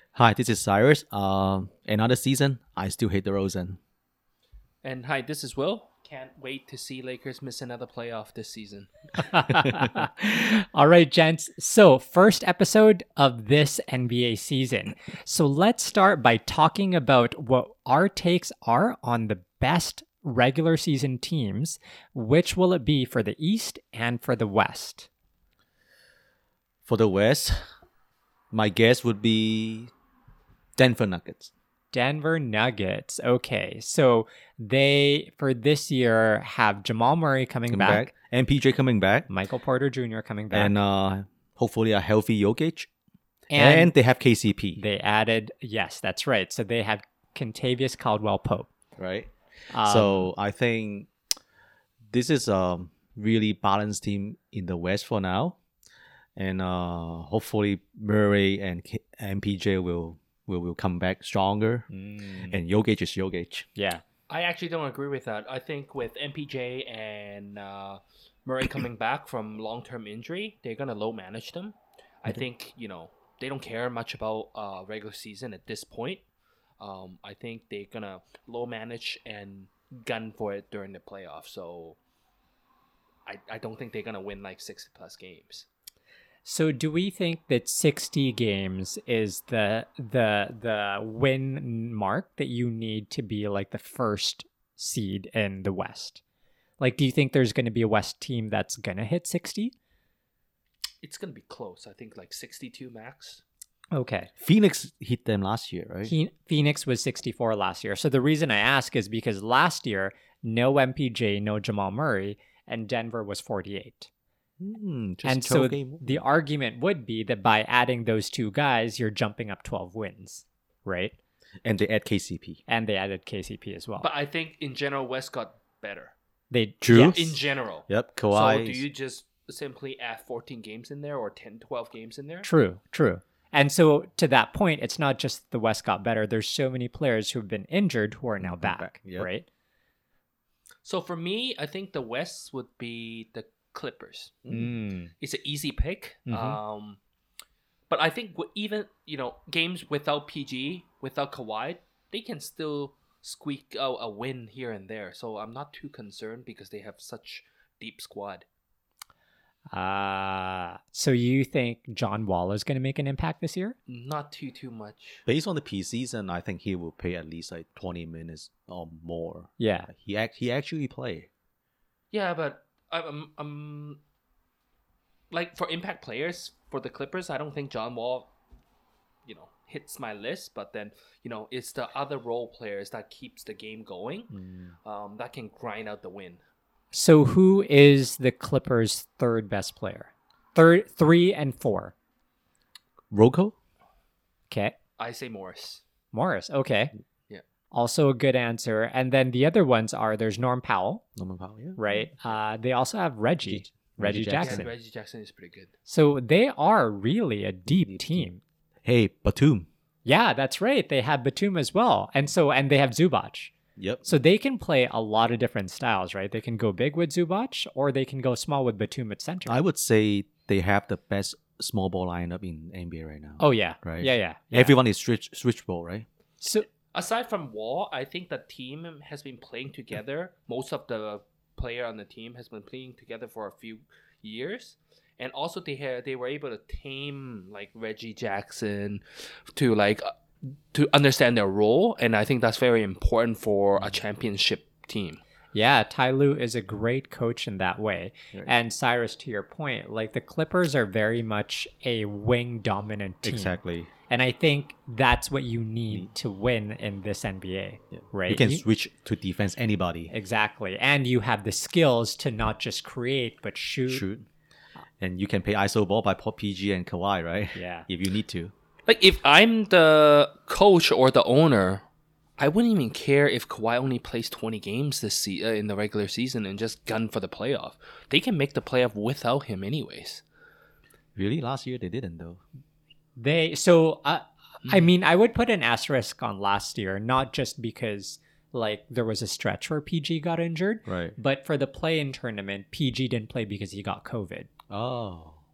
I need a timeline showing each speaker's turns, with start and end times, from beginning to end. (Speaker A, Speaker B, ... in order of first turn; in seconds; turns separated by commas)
Speaker A: 0.1-3.8, Speaker B: 4.8-8.9, Speaker C: 9.2-25.1, Speaker A: 26.9-27.6, Speaker A: 28.5-29.9, Speaker A: 30.8-31.5, Speaker C: 31.9-38.1, Speaker A: 37.7-39.3, Speaker C: 39.3-40.7, Speaker A: 40.5-42.9, Speaker C: 43.5-43.9, Speaker A: 43.5-44.8, Speaker C: 44.8-48.7, Speaker A: 49.0-51.1, Speaker C: 49.7-50.3, Speaker A: 52.1-55.6, Speaker A: 56.4-61.9, Speaker C: 61.9-62.6, Speaker A: 62.5-63.7, Speaker C: 63.8-64.0, Speaker B: 64.3-76.2, Speaker B: 76.8-82.0, Speaker B: 83.2-85.7, Speaker C: 86.4-96.2, Speaker C: 96.8-99.7, Speaker B: 101.0-103.4, Speaker C: 103.9-104.3, Speaker A: 104.4-106.1, Speaker C: 106.1-114.1, Speaker A: 114.6-116.2, Speaker C: 115.2-121.1, Speaker A: 121.6-122.6, Speaker C: 122.7-124.1, Speaker B: 124.0-126.1, Speaker C: 126.5-127.4, Speaker A: 126.8-127.1, Speaker B: 126.9-132.5, Speaker A: 127.9-128.8, Speaker C: 132.4-139.4, Speaker A: 138.4-139.3, Speaker B: 140.8-144.3, Speaker A: 144.4-144.7, Speaker C: 144.5-145.1, Speaker B: 145.2-147.0, Speaker C: 146.3-146.6, Speaker B: 147.9-158.4, Speaker C: 159.7-163.8, Speaker B: 163.9-165.2, Speaker A: 165.2-171.3, Speaker C: 169.6-169.9, Speaker B: 172.1-174.0, Speaker B: 175.3-178.3, Speaker B: 179.2-184.3, Speaker B: 184.8-186.4, Speaker C: 186.9-191.9, Speaker A: 193.1-193.5, Speaker C: 194.5-194.7, Speaker B: 195.0-195.8, Speaker C: 196.1-196.9, Speaker C: 197.7-201.0, Speaker A: 201.2-202.0, Speaker C: 201.8-204.7, Speaker A: 203.5-204.7, Speaker B: 204.4-205.7, Speaker C: 205.9-208.4, Speaker A: 207.7-208.3, Speaker A: 208.8-209.7, Speaker C: 210.0-213.5, Speaker A: 213.8-214.1, Speaker C: 214.0-219.6, Speaker A: 219.5-226.1, Speaker C: 223.4-224.7, Speaker C: 226.4-226.7, Speaker B: 226.9-240.1, Speaker B: 240.7-245.2, Speaker C: 245.5-258.6, Speaker A: 253.2-253.9, Speaker A: 257.9-260.1, Speaker C: 260.1-264.0, Speaker A: 263.9-264.2, Speaker A: 265.0-268.5, Speaker C: 267.5-267.9, Speaker B: 268.9-271.8, Speaker B: 272.4-280.2, Speaker A: 281.1-282.4, Speaker C: 283.2-294.5, Speaker A: 290.9-291.1, Speaker A: 294.7-295.4